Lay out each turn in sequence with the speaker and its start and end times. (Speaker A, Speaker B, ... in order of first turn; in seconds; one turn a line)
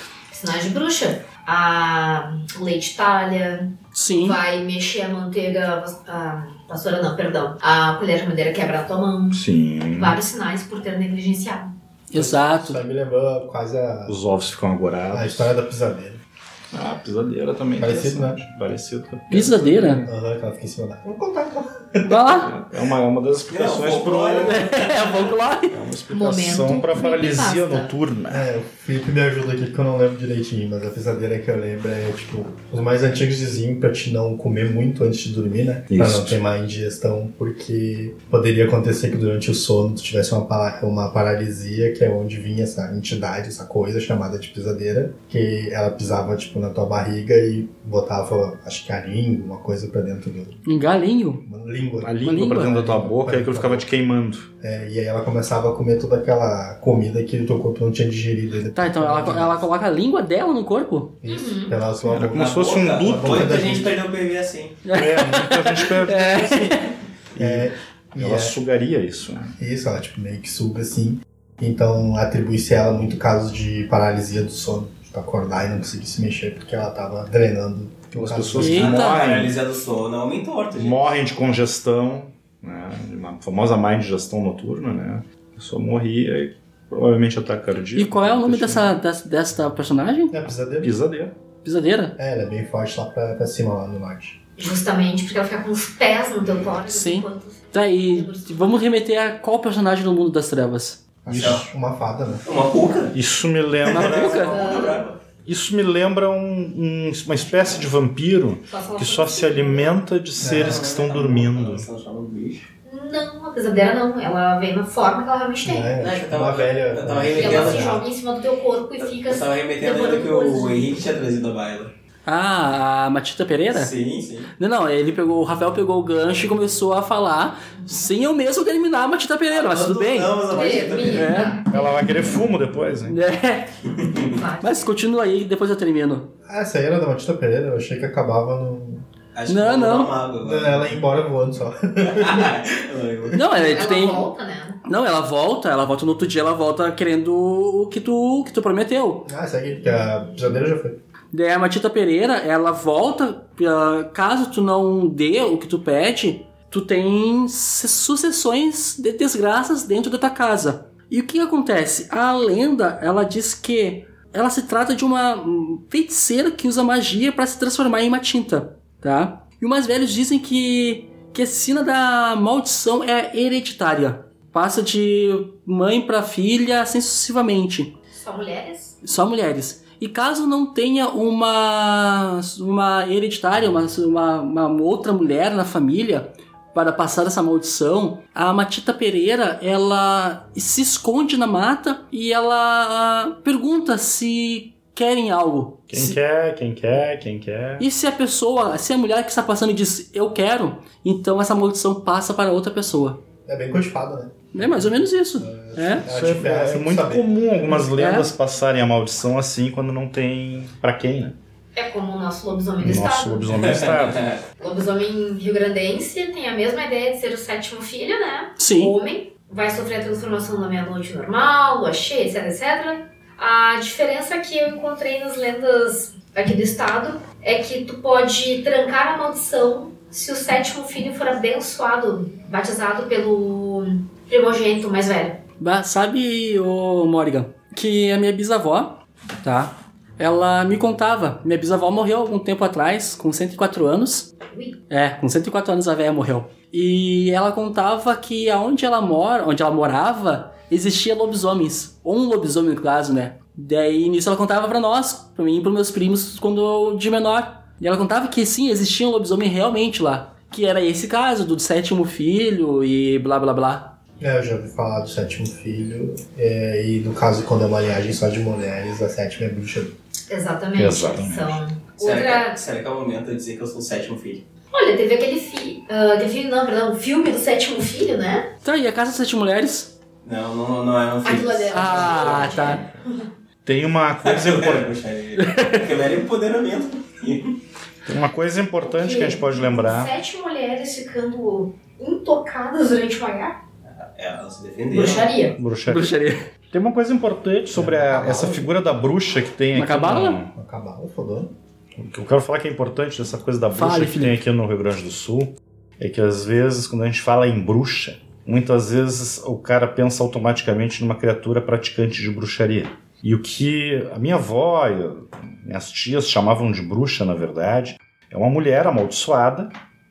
Speaker A: 0.3-11.7
Speaker B: 3.9-4.4
Speaker C: 9.3-10.2
Speaker B: 12.1-12.8
Speaker D: 12.1-14.2
Speaker C: 14.1-15.5
Speaker D: 15.1-16.2
Speaker C: 16.7-20.1
Speaker D: 17.8-18.4
Speaker B: 19.3-20.1
Speaker D: 20.0-22.3
Speaker B: 22.1-22.6
Speaker C: 22.4-24.7
Speaker E: 23.5-25.2
Speaker B: 24.3-25.8
Speaker C: 25.7-28.5
Speaker A: 26.1-27.9
Speaker D: 28.3-50.6
Speaker C: 35.9-36.4
Speaker B: 50.6-51.4
Speaker D: 51.4-53.9
Speaker C: 52.0-54.5
Speaker B: 52.2-52.9
Speaker D: 54.6-59.7
Speaker B: 58.7-61.2
Speaker D: 61.2-63.9
Speaker A: 61.2-61.8
Speaker C: 62.0-63.8
Speaker E: 62.3-64.8
Speaker B: 64.8-66.9
Speaker C: 64.9-69.5
Speaker D: 67.3-68.5
Speaker D: 69.6-78.9
Speaker C: 78.2-79.5
Speaker B: 78.6-79.2
Speaker E: 78.7-81.1
Speaker C: 80.7-89.0
Speaker B: 87.9-90.3
Speaker D: 90.3-90.9
Speaker C: 90.8-91.3
Speaker B: 91.6-92.2
Speaker D: 92.2-94.4
Speaker A: 94.6-98.8
Speaker B: 96.9-101.0
Speaker D: 101.2-102.4
Speaker E: 101.3-101.7
Speaker E: 102.4-103.2
Speaker C: 103.1-104.6
Speaker E: 103.8-105.2
Speaker B: 103.9-104.5
Speaker A: 104.5-105.1
Speaker C: 105.4-111.8
Speaker A: 108.7-110.0
Speaker D: 110.4-110.8
Speaker E: 110.4-112.7
Speaker A: 112.8-116.0
Speaker D: 115.6-118.0
Speaker E: 116.0-118.0
Speaker A: 117.3-121.0
Speaker E: 119.0-121.9
Speaker B: 122.2-123.9
Speaker E: 123.7-124.5
Speaker B: 124.6-131.6
Speaker E: 129.5-131.5
Speaker A: 130.5-131.7
Speaker C: 131.7-133.2
Speaker B: 133.0-133.7
Speaker E: 134.0-134.3
Speaker A: 134.2-134.8
Speaker B: 134.6-136.3
Speaker D: 136.4-139.1
Speaker E: 139.3-141.0
Speaker B: 139.5-140.1
Speaker D: 140.4-142.5
Speaker E: 142.0-143.4
Speaker B: 143.3-144.3
Speaker A: 143.5-144.8
Speaker B: 144.8-149.3
Speaker D: 149.2-151.0
Speaker B: 151.3-177.9
Speaker A: 178.1-179.0
Speaker B: 179.0-196.2
Speaker C: 195.9-197.8
Speaker B: 197.8-203.2
Speaker D: 203.4-207.8
Speaker B: 204.5-206.1
Speaker C: 206.0-211.3
Speaker B: 207.9-208.3
Speaker A: 211.7-213.7
Speaker C: 212.8-214.3
Speaker E: 213.6-214.4
Speaker A: 214.6-235.4
Speaker B: 218.6-218.9
Speaker B: 235.6-244.3
Speaker A: 244.5-244.8
Speaker B: 244.9-264.0
Speaker D: 264.2-269.9
Speaker A: 270.3-272.6
Speaker C: 270.7-271.6
Speaker E: 272.0-274.4
Speaker A: 274.7-278.5
Speaker B: 278.6-279.9
Speaker E: 280.2-282.8
Speaker A: 281.2-283.2
Speaker B: 281.7-282.8
Speaker C: 283.6-284.9
Speaker E: 284.2-287.6
Speaker B: 285.4-285.9
Speaker C: 288.1-290.1
Speaker A: 288.8-293.6
Speaker E: 293.9-295.3
Speaker A: 294.9-295.6
Speaker C: 295.5-296.1
Speaker B: 295.9-296.4
Speaker C: 296.7-300.5
Speaker D: 297.7-298.7
Speaker B: 299.7-300.4
Speaker D: 300.5-301.5
Speaker C: 302.0-319.7
Speaker B: 303.7-304.4